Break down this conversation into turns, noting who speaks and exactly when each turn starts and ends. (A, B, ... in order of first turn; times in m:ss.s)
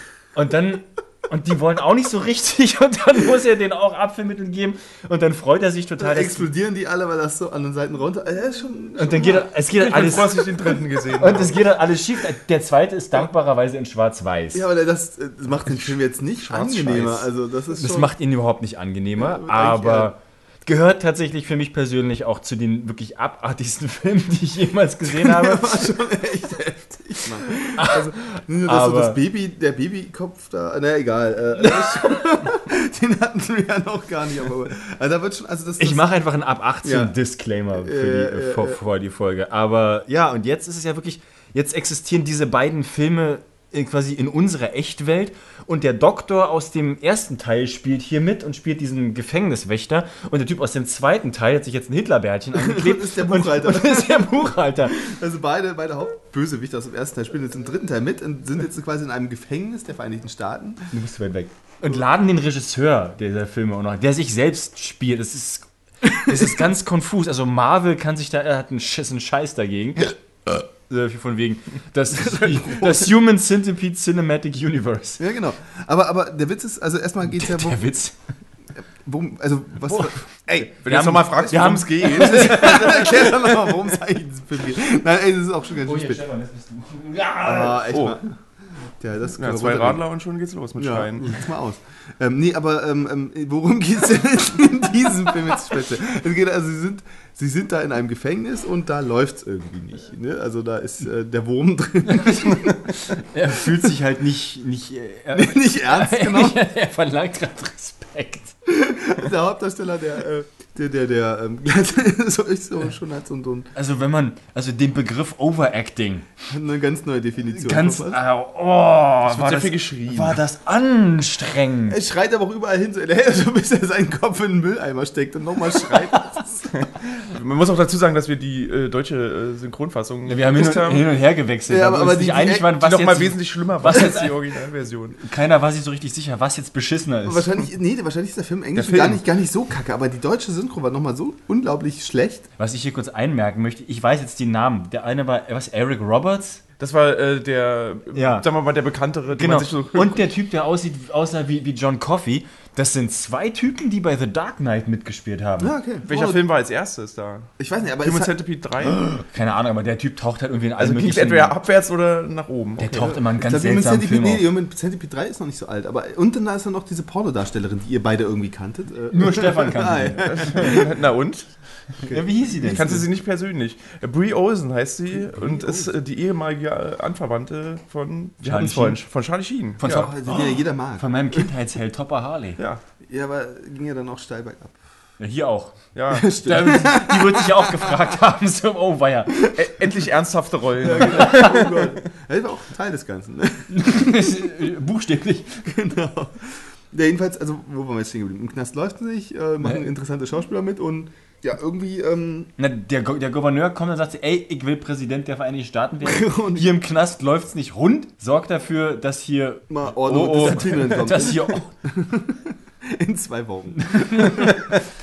0:00.4-0:06.5 A
0:06.0-0:09.5 B
0:09.0-0:14.6 A
0:09.8-0:11.6 C
0:14.5-0:18.1 B
0:16.4-0:17.3 C
0:17.7-0:25.9 A
0:19.2-0:20.1 B
0:25.1-0:36.1 B
0:27.8-0:29.2 A
0:31.6-0:32.2 A
0:35.8-0:55.0 A
0:36.8-0:37.1 B
0:37.7-0:38.8 B
0:52.5-1:00.9 B
1:00.9-1:15.2 A
1:12.1-1:13.1 B
1:15.2-1:17.8 B
1:17.3-1:18.2 A
1:18.8-1:20.7 B
1:19.9-1:20.1 A
1:20.7-1:23.5 A
1:20.8-1:23.2 C
1:21.5-1:26.3 B
1:25.8-1:27.9 A
1:27.4-1:28.3 B
1:27.9-1:28.2 C
1:29.0-1:30.0 B
1:29.4-1:31.4 C
1:30.8-1:42.9 B
1:42.1-1:48.6 A
1:45.3-1:46.6 B
1:48.7-1:53.7 B
1:53.8-1:56.3 A
1:56.5-1:58.2 B
1:57.6-2:02.0 A
1:59.3-2:00.4 C
2:01.9-2:06.7 B
2:06.7-2:11.1 C
2:10.3-2:14.4 A
2:11.7-2:12.8 B
2:12.7-2:15.2 C
2:15.2-2:17.5 A
2:17.2-2:22.5 B
2:18.8-2:19.2 C
2:22.6-2:26.6 A
2:26.8-2:30.2 C
2:28.1-2:28.5 A
2:29.4-2:35.7 A
2:35.6-2:36.4 B
2:36.1-2:39.0 C
2:37.6-2:38.3 B
2:38.8-2:41.6 A
2:40.8-2:43.2 C
2:42.8-2:44.5 A
2:43.0-2:50.9 B
2:49.1-2:50.7 A
2:50.2-2:51.5 C
2:52.0-2:53.1 A
2:52.0-2:53.0 B
2:52.6-3:00.1 C
2:55.3-2:55.9 B
2:58.4-2:59.0 A
2:59.8-3:02.6 A
2:59.8-3:01.5 B
3:03.0-3:04.8 B
3:05.2-3:09.5 A
3:06.0-3:06.3 C
3:06.1-3:08.0 B
3:09.5-3:12.0 C
3:10.8-3:14.3 B
3:11.0-3:11.6 A
3:13.7-3:15.7 A
3:15.6-3:22.5 B
3:22.6-3:31.7 A
3:26.0-3:26.8 B
3:29.7-3:34.8 B
3:30.0-3:31.4 C
3:33.8-3:34.5 A